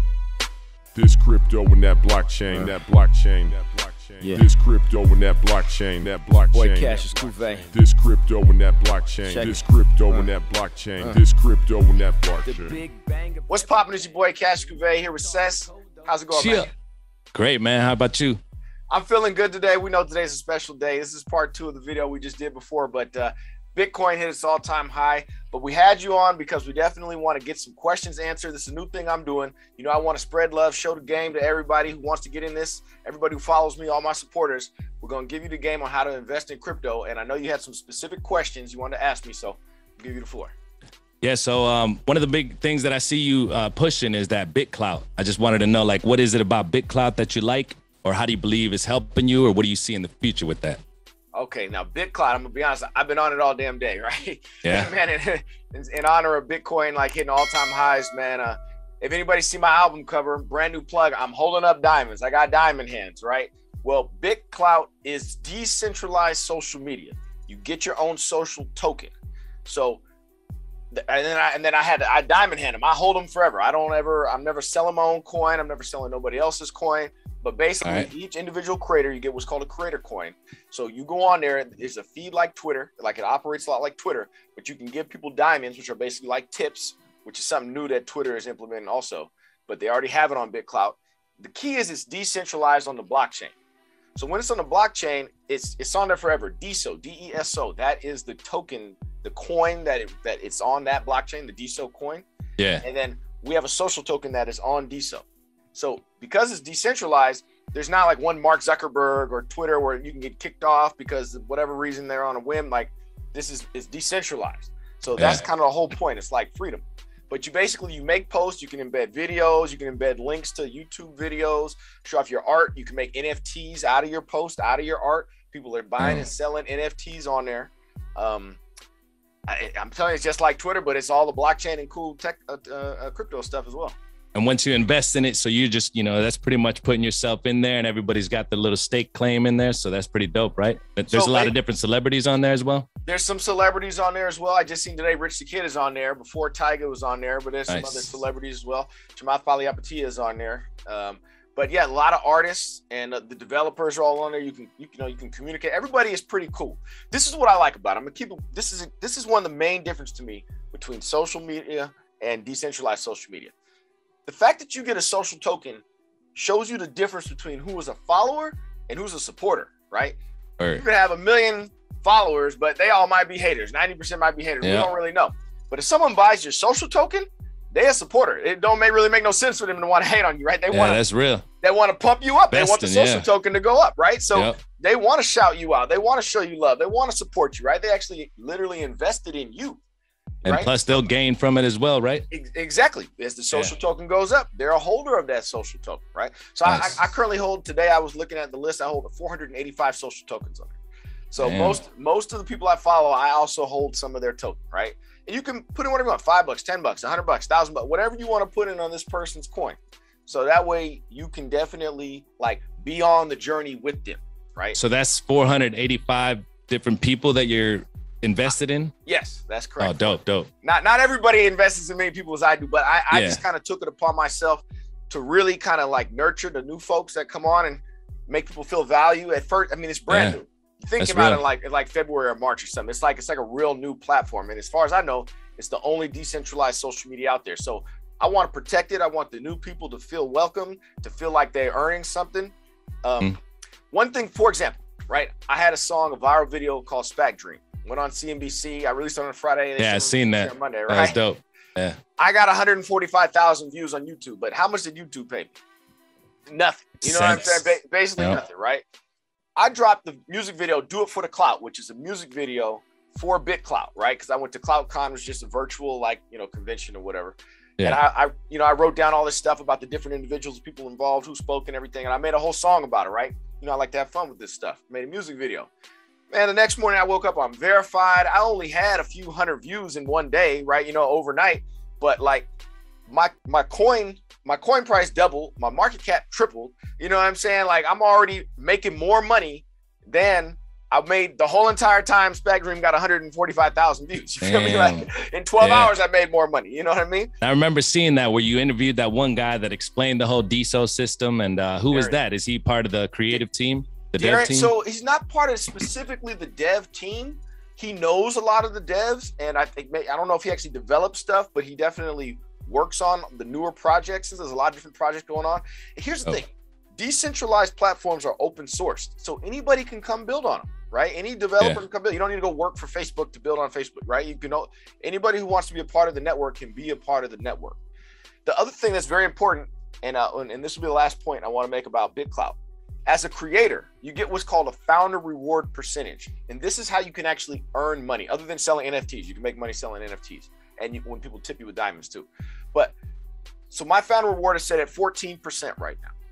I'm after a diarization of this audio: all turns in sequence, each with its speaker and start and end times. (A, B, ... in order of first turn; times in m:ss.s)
0:00.9-0:03.6 A
0:04.2-0:07.1 A
0:06.5-0:07.7 B
0:06.6-0:07.7 C
0:07.7-0:12.8 A
0:09.2-0:10.3 B
0:12.4-0:16.3 B
0:13.5-0:16.7 C
0:16.3-0:16.7 D
0:17.3-0:18.4 D
0:18.9-0:40.5 C
0:41.2-0:50.8 D
0:51.4-1:09.1 C
0:54.6-0:54.9 D
1:09.6-1:10.0 C
1:10.9-1:33.5 C
1:17.8-1:18.1 D
1:34.2-1:42.3 C
1:42.6-1:42.8 D
1:42.8-2:08.6 C
1:55.2-1:55.5 D
2:06.0-2:06.3 D
2:09.5-2:14.0 C
2:14.4-2:22.9 D
2:21.1-2:21.5 C
2:23.1-2:43.5 C
2:27.7-2:28.1 D
2:44.3-2:45.8 C
2:46.4-2:50.2 C
2:50.6-2:50.8 D
2:50.8-3:01.0 C
2:54.6-2:54.9 D
3:00.7-3:01.4 D
3:01.6-3:09.8 C
3:02.5-3:03.3 D
3:04.3-3:04.6 D
3:10.4-3:11.0 C
3:10.4-3:12.2 D
3:12.3-3:20.7 C
3:16.6-3:17.0 D
3:21.3-3:34.8 C
3:21.4-3:21.8 D
3:34.7-3:38.9 D
3:39.1-4:03.4 C
3:39.8-3:40.5 D
3:43.1-3:43.4 D
3:50.1-3:50.4 D
3:51.0-3:51.4 D
4:03.9-4:11.2 C
4:09.8-4:12.0 D
4:12.2-4:15.6 C
4:16.5-4:18.8 C
4:17.0-4:18.4 D
4:19.6-4:35.7 C
4:36.3-4:42.5 C
4:43.1-4:57.3 C
4:54.4-4:56.0 D
4:57.4-5:04.7 D
5:01.9-5:02.2 C
5:04.2-5:27.8 C
5:28.4-5:42.9 C
5:43.7-5:46.1 C